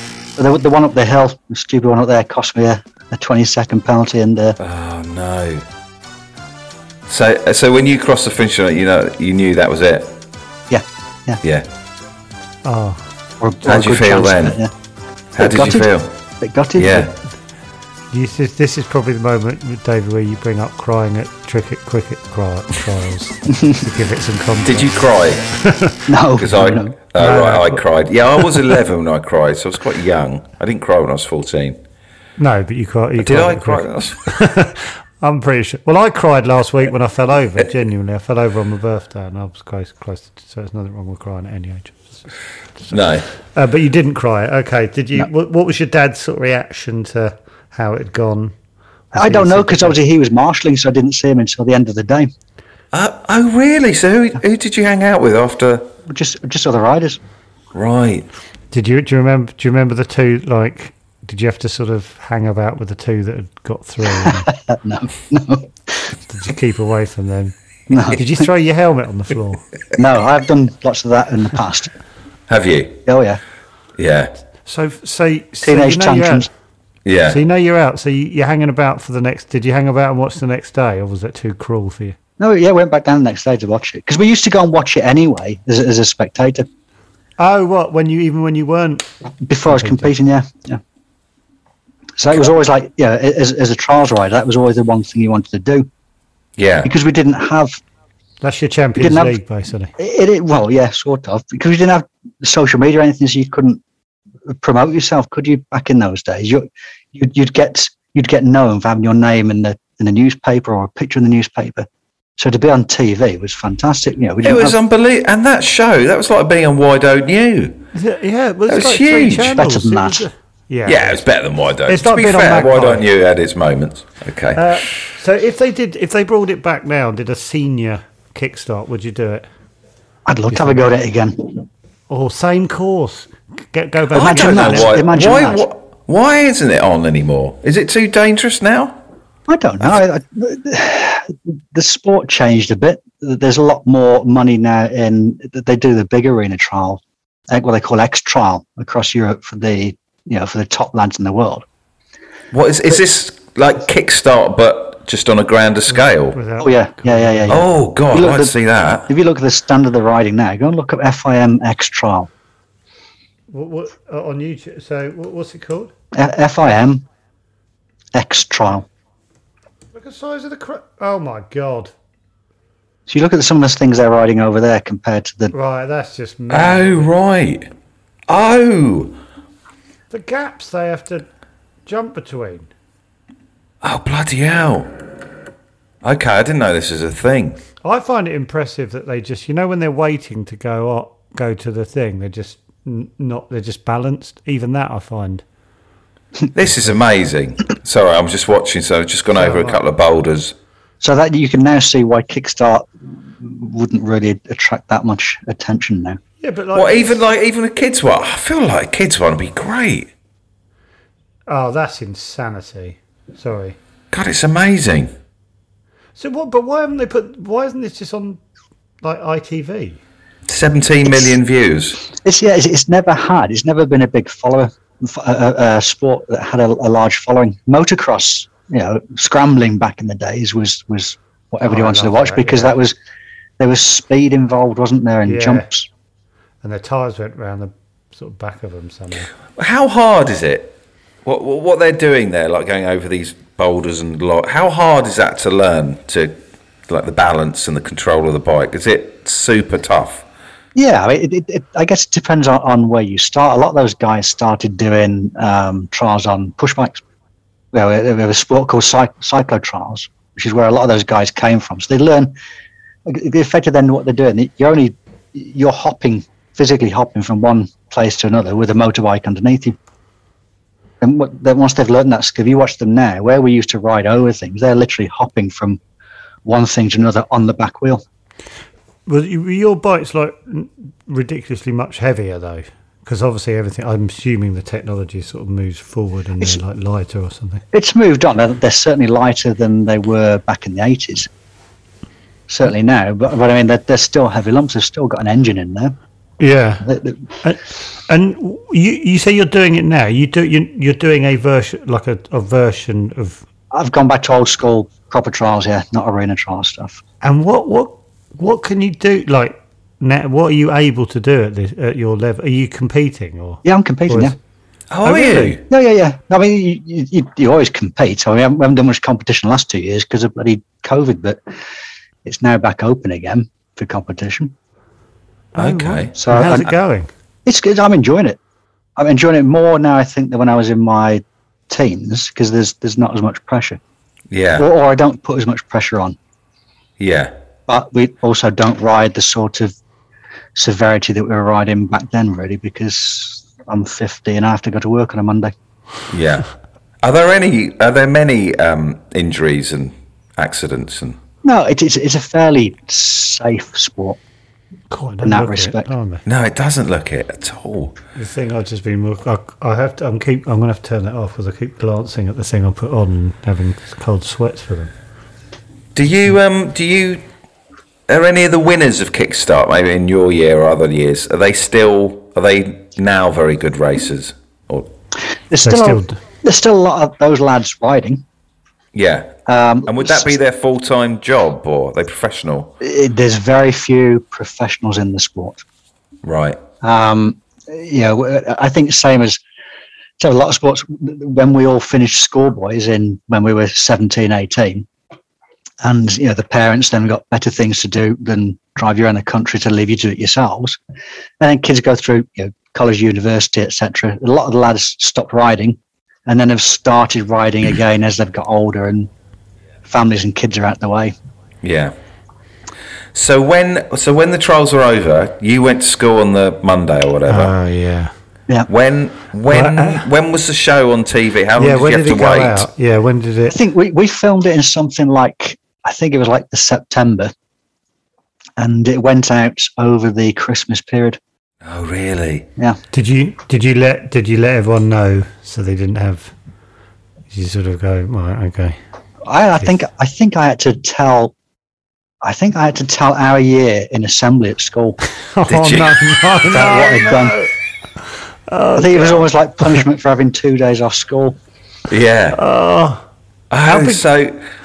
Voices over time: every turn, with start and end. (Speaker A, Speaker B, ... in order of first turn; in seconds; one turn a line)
Speaker A: 0.4-4.6
Speaker B: 4.6-5.6
Speaker B: 7.1-10.2
Speaker A: 10.7-11.4
Speaker C: 12.6-13.0
Speaker A: 13.4-14.7
Speaker B: 13.6-14.6
Speaker B: 15.3-16.1
Speaker A: 15.4-17.1
Speaker B: 16.8-17.1
Speaker C: 18.1-26.1
Speaker B: 24.6-25.4
Speaker A: 26.1-26.9
Speaker B: 26.4-31.8
Speaker C: 27.2-27.8
Speaker C: 32.4-42.3
Speaker B: 33.2-34.2
Speaker C: 42.9-48.5
Speaker B: 42.9-43.2
Speaker C: 49.1-50.0
Speaker A: 49.1-52.3
Speaker B: 52.9-55.9
Speaker A: 56.0-57.2
Speaker B: 57.7-58.3
Speaker C: 58.7-64.5
Speaker A: 64.2-66.1
Speaker C: 66.2-67.5
Speaker A: 67.9-68.2
Speaker C: 68.1-69.6
Speaker A: 70.0-71.9
Speaker B: 72.5-73.0
Speaker A: 73.0-73.4
Speaker B: 74.0-74.3
Speaker C: 74.7-76.5
Speaker A: 75.6-76.5
Speaker B: 77.0-77.4
Speaker C: 77.2-82.2
Speaker A: 82.4-86.7
Speaker C: 87.4-89.1
Speaker A: 89.4-90.8
Speaker C: 89.7-90.1
Speaker A: 92.2-95.9
Speaker B: 96.6-96.9
Speaker A: 96.8-97.8
Speaker C: 98.4-99.9
Speaker A: 99.0-99.3
Speaker A: 100.0-103.8
Speaker A: 104.5-114.8
Speaker B: 114.4-117.8
Speaker C: 117.9-121.2
Speaker B: 118.7-119.6
Speaker A: 119.5-120.3
Speaker B: 120.8-124.9
Speaker C: 121.9-123.0
Speaker C: 124.5-129.5
Speaker A: 130.2-131.7
Speaker C: 130.5-130.8
Speaker C: 132.1-135.6
Speaker B: 134.1-139.0
Speaker A: 134.2-135.6
Speaker A: 139.5-151.6
Speaker B: 152.5-156.4
Speaker C: 155.9-157.6
Speaker A: 156.6-158.5
Speaker B: 157.5-159.1
Speaker A: 159.1-162.3
Speaker C: 163.5-165.9
Speaker A: 166.1-167.0
Speaker A: 168.1-168.8
Speaker C: 169.9-171.9
Speaker A: 173.1-175.5
Speaker C: 175.5-177.1
Speaker B: 176.5-177.7
Speaker B: 178.3-179.2
Speaker C: 180.1-181.3
Speaker C: 181.8-182.7
Speaker B: 183.8-184.9
Speaker B: 186.0-187.6
Speaker C: 187.8-195.4
Speaker B: 196.5-200.5
Speaker C: 199.3-199.8
Speaker A: 201.0-206.2
Speaker C: 206.4-207.2
Speaker B: 206.7-210.1
Speaker C: 211.5-213.8
Speaker B: 214.1-215.1
Speaker C: 216.2-218.4
Speaker C: 219.0-220.0
Speaker B: 220.5-222.0
Speaker A: 221.0-221.4
Speaker A: 222.0-232.9
Speaker C: 231.6-232.7
Speaker A: 233.6-235.9
Speaker C: 235.2-235.7
Speaker C: 236.6-239.3
Speaker B: 239.5-246.3
Speaker B: 246.9-250.2
Speaker A: 250.7-257.0
Speaker A: 257.7-262.3
Speaker A: 263.1-269.8
Speaker A: 271.0-275.8
Speaker A: 276.4-278.0
Speaker C: 279.1-287.6
Speaker A: 287.7-291.3
Speaker A: 292.5-295.9
Speaker C: 296.4-296.9
Speaker A: 296.8-297.2
Speaker C: 297.4-303.4
Speaker A: 303.7-307.0
Speaker C: 307.2-314.3
Speaker A: 313.6-314.4
Speaker B: 314.9-315.6
Speaker C: 315.0-315.6
Speaker A: 315.7-321.4
Speaker A: 322.2-324.5
Speaker C: 325.5-327.1
Speaker B: 325.6-326.1
Speaker A: 326.1-326.7
Speaker A: 327.4-328.4
Speaker A: 329.0-333.8
Speaker B: 334.3-334.6
Speaker A: 334.6-336.2
Speaker B: 337.0-337.3
Speaker A: 337.7-339.8
Speaker A: 340.5-345.5
Speaker B: 346.1-346.5
Speaker B: 347.0-351.2
Speaker A: 351.4-354.2
Speaker C: 354.9-356.2
Speaker A: 355.2-355.9
Speaker B: 356.2-357.9
Speaker C: 358.1-364.9
Speaker B: 365.9-367.2
Speaker B: 368.1-374.9
Speaker A: 375.5-378.2
Speaker C: 375.6-376.2
Speaker B: 378.9-379.4
Speaker A: 379.4-380.4
Speaker B: 379.9-382.7
Speaker A: 382.8-385.6
Speaker B: 386.2-386.6
Speaker A: 386.8-389.4
Speaker A: 390.2-394.9
Speaker A: 395.8-400.8
Speaker A: 401.4-409.1
Speaker A: 409.9-411.1
Speaker B: 411.6-411.9
Speaker B: 413.1-417.5
Speaker C: 417.3-418.1
Speaker B: 418.7-422.7
Speaker C: 419.5-420.1
Speaker C: 421.6-423.6
Speaker A: 423.5-427.3
Speaker A: 428.6-431.2
Speaker B: 431.6-432.5
Speaker C: 432.9-436.3
Speaker C: 437.3-438.8
Speaker A: 439.2-441.3
Speaker A: 442.2-445.0
Speaker C: 445.3-447.5
Speaker B: 445.5-446.0
Speaker A: 446.5-447.3
Speaker C: 448.5-449.3
Speaker A: 448.8-451.4
Speaker B: 451.9-452.4
Speaker C: 452.3-453.0
Speaker B: 453.5-454.4
Speaker C: 453.6-454.0